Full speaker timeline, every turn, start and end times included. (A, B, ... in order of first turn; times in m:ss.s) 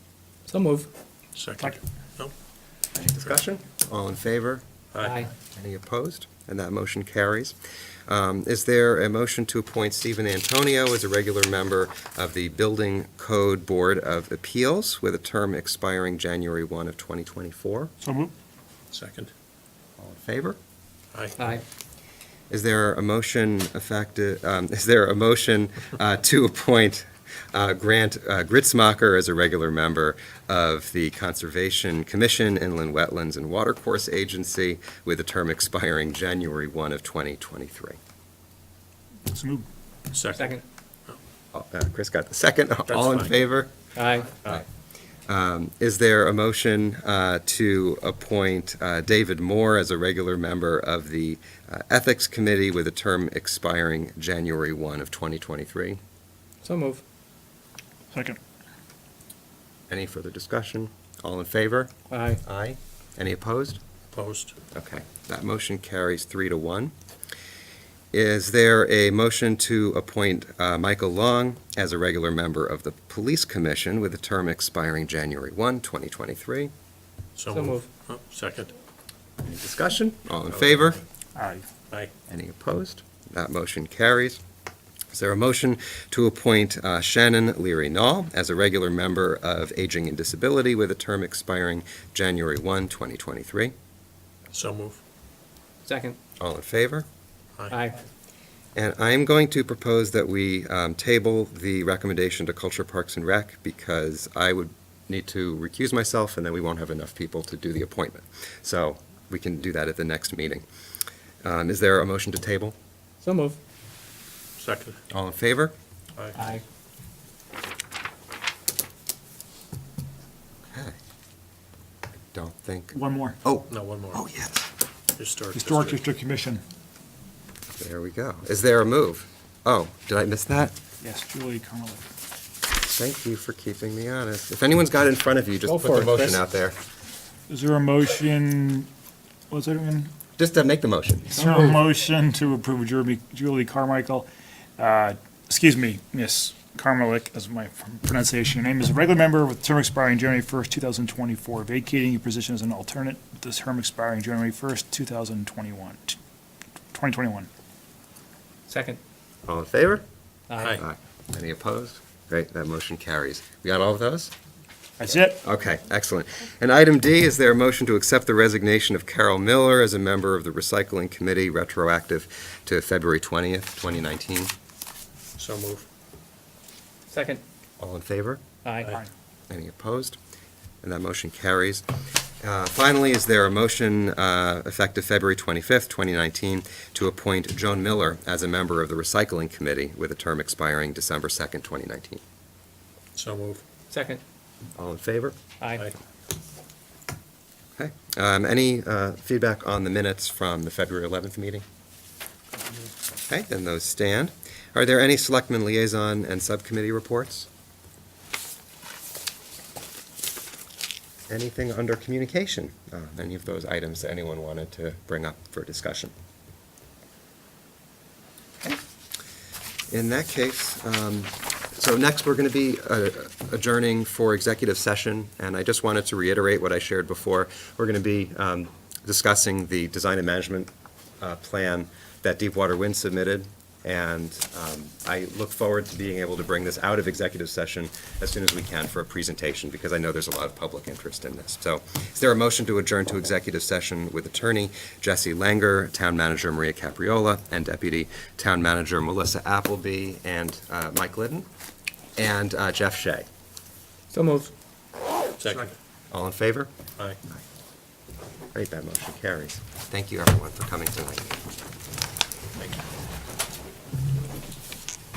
0:00.5-0:00.9 A
0:01.4-0:02.3 B
0:02.9-0:04.6 C
0:04.9-0:05.2 B
0:05.0-0:05.3 A
0:05.5-0:07.6 C
0:08.1-0:17.9 C
0:18.0-0:18.3 D
0:18.9-0:19.3 B
0:20.0-0:20.6 C
0:21.1-0:21.4 B
0:21.4-0:21.6 A
0:22.5-0:38.0 C
0:39.3-0:39.7 D
0:40.1-0:41.2 B
0:40.4-0:40.6 A
0:41.5-0:43.7 C
0:42.9-0:43.4 B
0:44.0-0:44.4 A
0:45.3-0:56.0 C
0:56.6-0:57.0 A
0:58.1-0:58.4 D
0:59.9-1:03.8 C
1:02.1-1:02.4 A
1:04.1-1:04.6 B
1:04.7-1:06.9 C
1:08.1-1:16.7 C
1:17.4-1:18.7 B
1:17.5-1:17.9 A
1:19.4-1:21.0 C
1:20.5-1:21.0 B
1:21.4-1:21.7 D
1:22.3-1:24.4 C
1:25.1-1:33.7 C
1:34.5-1:35.0 B
1:35.8-1:36.2 A
1:36.4-1:37.1 C
1:37.7-1:38.0 A
1:38.8-1:50.6 C
1:51.4-1:52.8 C
1:53.2-1:53.6 A
1:54.6-1:55.0 B
1:55.1-1:55.7 C
1:56.4-1:56.6 A
2:00.7-2:01.0 C
2:02.3-2:04.7 C
2:02.9-2:03.4 D
2:03.7-2:04.2 B
2:05.2-2:06.0 B
2:05.6-2:06.6 D
2:07.8-2:10.8 C
2:11.0-2:12.0 D
2:12.9-2:16.8 C
2:15.7-2:16.4 A
2:17.5-2:18.9 D
2:19.5-2:20.1 D
2:20.4-2:21.5 C
2:21.3-2:36.2 D
2:36.9-2:37.5 D
2:38.7-2:39.0 A
2:39.5-2:40.0 C
2:40.5-2:40.8 A
2:40.8-2:44.3 C
2:45.0-2:45.4 D
2:45.4-2:54.5 C
2:55.4-2:55.9 B
2:57.1-2:57.4 A
2:57.8-2:58.4 C
2:58.6-2:59.0 A
2:59.5-3:00.2 C
3:00.8-3:01.8 C
3:02.4-3:12.2 C
3:13.2-3:13.6 B
3:13.9-3:14.2 A
3:14.8-3:15.4 C
3:17.8-3:21.6 C
3:23.3-3:27.5 C
3:31.3-3:36.1 C
3:39.9-3:50.7 C
3:51.2-4:11.5 C
4:12.2-4:13.3 C
4:14.1-4:14.5 A
4:15.4-4:15.8 B
4:16.1-4:16.7 C
4:18.6-4:21.3 C